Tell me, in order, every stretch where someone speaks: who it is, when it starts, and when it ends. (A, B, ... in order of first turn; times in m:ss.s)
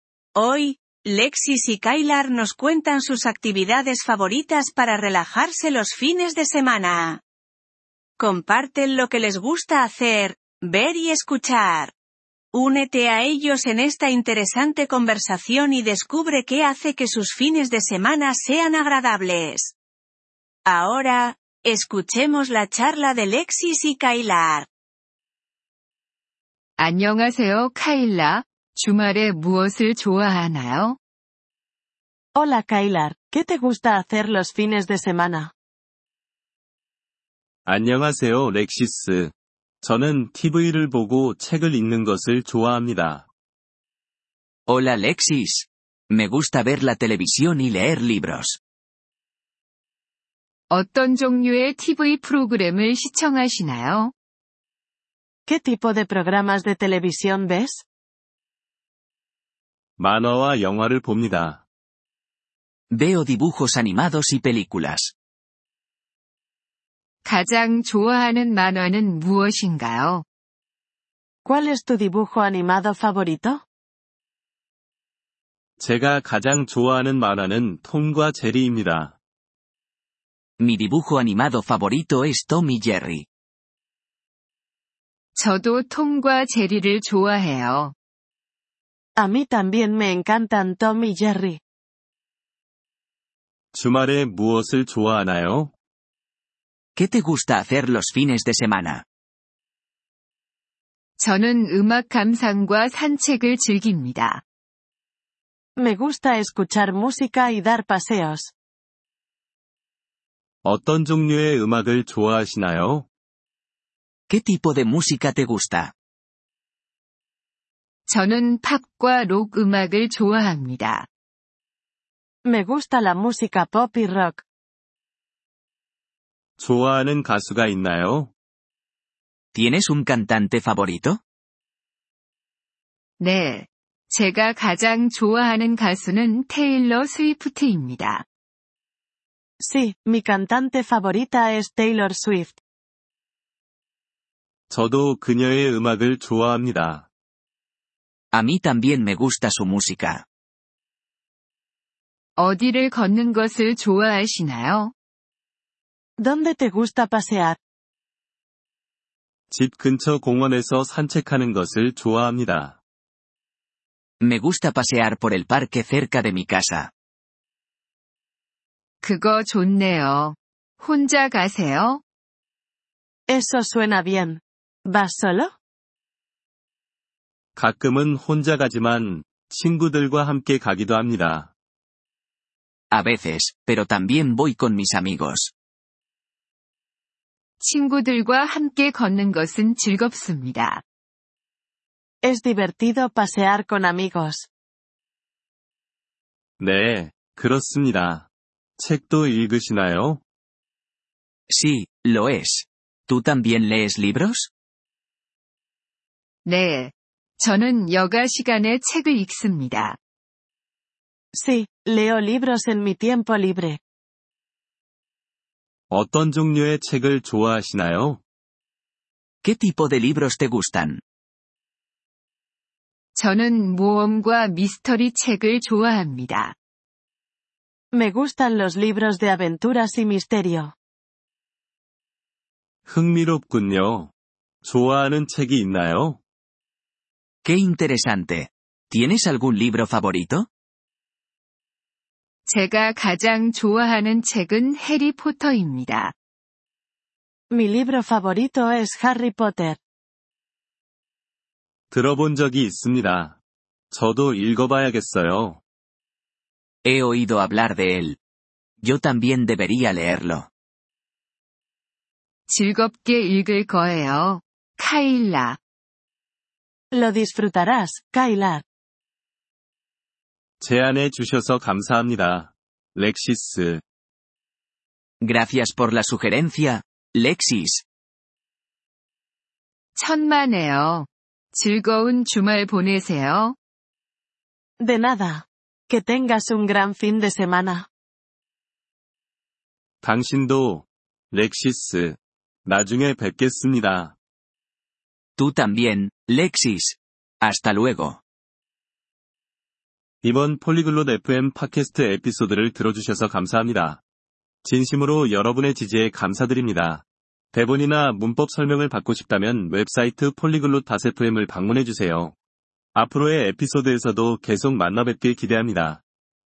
0:00.3-0:07.2 A
0:08.2-0:11.9 A
0:12.5-0:19.7 A
0:20.6-0:24.7 A
0:26.8-0:31.0 B
0:32.3-0:35.5 C
0:37.6-0:39.3 D
0:39.8-0:43.2 D
0:44.7-0:48.6 E
0:50.7-0:54.1 B
0:55.5-0:57.8 C
1:00.0-1:01.6 D
1:02.9-1:05.1 E
1:07.2-1:10.2 B
1:11.4-1:13.6 C
1:15.8-1:19.2 D
1:20.6-1:23.2 E
1:25.3-1:27.9 B
1:29.2-1:31.6 C
1:33.7-1:35.7 D
1:37.0-1:39.0 E
1:41.2-1:44.4 B
1:45.8-1:48.5 C
1:50.6-1:53.1 D
1:54.3-1:55.9 E
1:58.1-2:01.1 B
2:02.4-2:04.4 C
2:06.6-2:08.3 D
2:09.5-2:11.2 E
2:13.2-2:18.2 B
2:19.6-2:22.6 C
2:24.7-2:27.1 D
2:28.3-2:30.2 E
2:32.4-2:34.9 B
2:36.2-2:37.6 C
2:39.5-2:42.8 D
2:44.2-2:46.9 E
2:49.0-2:52.0 B
2:53.3-2:55.5 C
2:57.6-3:01.5 D
3:02.9-3:05.5 E
3:07.6-3:10.8 B
3:12.2-3:14.5 C
3:16.6-3:20.2 D
3:21.5-3:24.5 E
3:26.4-3:30.0 B
3:31.3-3:33.8 C
3:35.9-3:38.2 D
3:39.4-3:41.0 E
3:43.1-3:46.5 B
3:47.9-3:50.7 C
3:52.9-3:54.1 D
3:54.6-3:56.2 D
3:57.4-4:00.5 E
4:02.4-4:06.1 B
4:07.5-4:09.8 C
4:11.9-4:13.4 D
4:13.9-4:15.6 D
4:16.8-4:18.2 E
4:18.8-4:20.5 E
4:22.5-4:25.6 B
4:26.9-4:28.6 C
4:30.6-4:33.8 D
4:35.2-4:37.8 E
4:40.0-4:43.6 B
4:44.8-4:47.9 C
4:50.0-4:54.1 D
4:55.4-4:58.2 E
5:00.2-5:04.0 D
5:04.6-5:12.3 D
5:12.9-5:16.0 D